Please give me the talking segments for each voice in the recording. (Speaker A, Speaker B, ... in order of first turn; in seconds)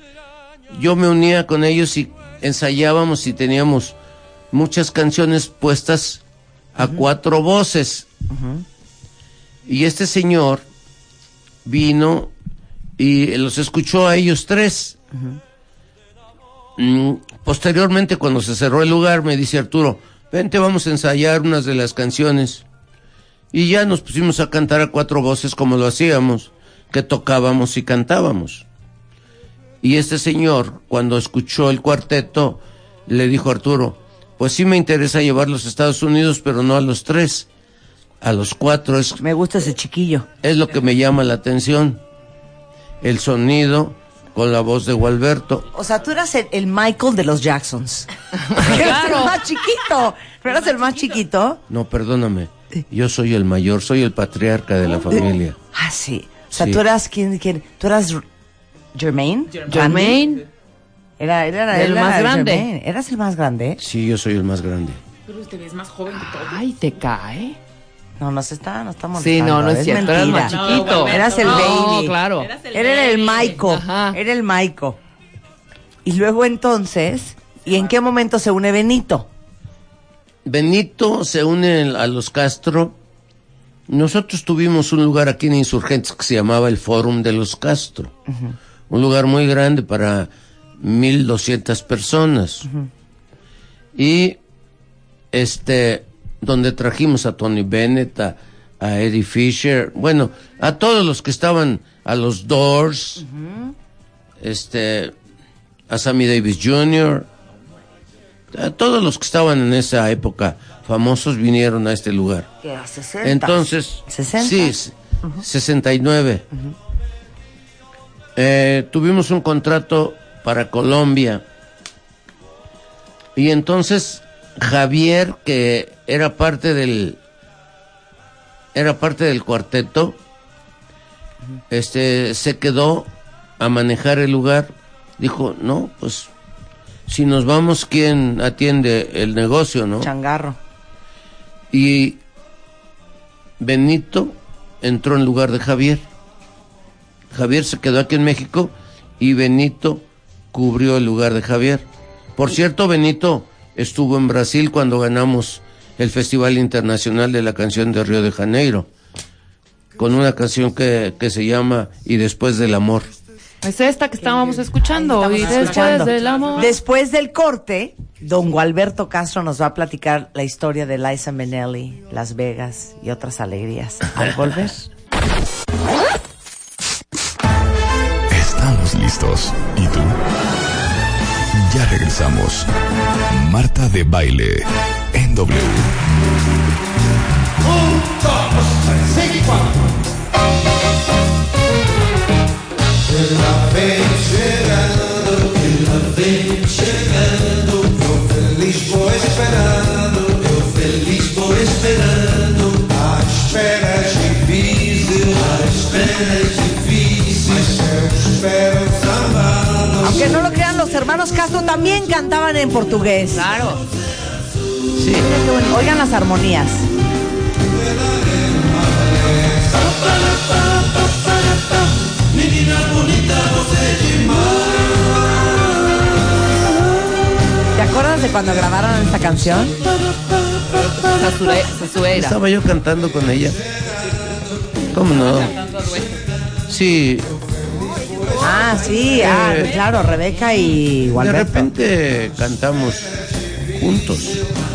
Speaker A: 0.7-4.0, 4.5-6.2, 6.8-8.1, 9.7-10.7, 11.7-12.3, 13.0-15.0, 16.8-22.6, 23.5-28.7, 29.8-37.5, 38.2-39.2, 40.4-42.0, 43.0-45.7, 51.7-55.6, 56.5-56.8, 63.8-65.0, 80.5-83.0, 83.9-88.1, 88.9-92.7, 94.0-94.4, 95.3-103.2, 104.4-105.1, 105.9-107.3, 108.5-112.5, 113.2-116.5, 118.4-121.4, 123.3-127.2, 128.8-130.2, 131.7-133.1, 133.6-136.3, 137.1-140.1, 141.7-142.2, 143.6-146.1, 147.3-151.9, 152.4-158.9, 160.0-163.1, 195.7-197.8, 198.5-202.9, 203.7-207.7, 214.9-215.3, 222.7-223.0, 230.0-231.6, 232.1-233.6, 234.9-235.6, 236.7-237.4, 239.0-239.8, 241.1-243.2, 243.7-244.4
Speaker B: 8.3-8.7, 39.2-40.3, 45.7-51.6, 55.7-58.2, 58.9-60.2, 61.2-63.8, 68.2-72.2, 72.7-75.0, 76.0-79.3, 103.2-103.7, 112.6-115.4, 140.0-140.6, 164.2-174.9, 210.0-213.6, 215.2-216.9, 227.7-229.8, 238.4-241.7
Speaker C: 48.5-49.4, 59.7-60.5, 61.7-62.7, 66.2-67.6, 69.2-72.5, 73.4-74.2, 163.6-166.7, 213.3-213.8, 230.8-232.4
Speaker D: 50.5-51.1, 59.5-60.5, 65.3-66.6, 70.0-73.6, 165.3-166.8, 235.0-236.3
Speaker E: 178.3-180.2, 181.5-182.7, 183.3-186.0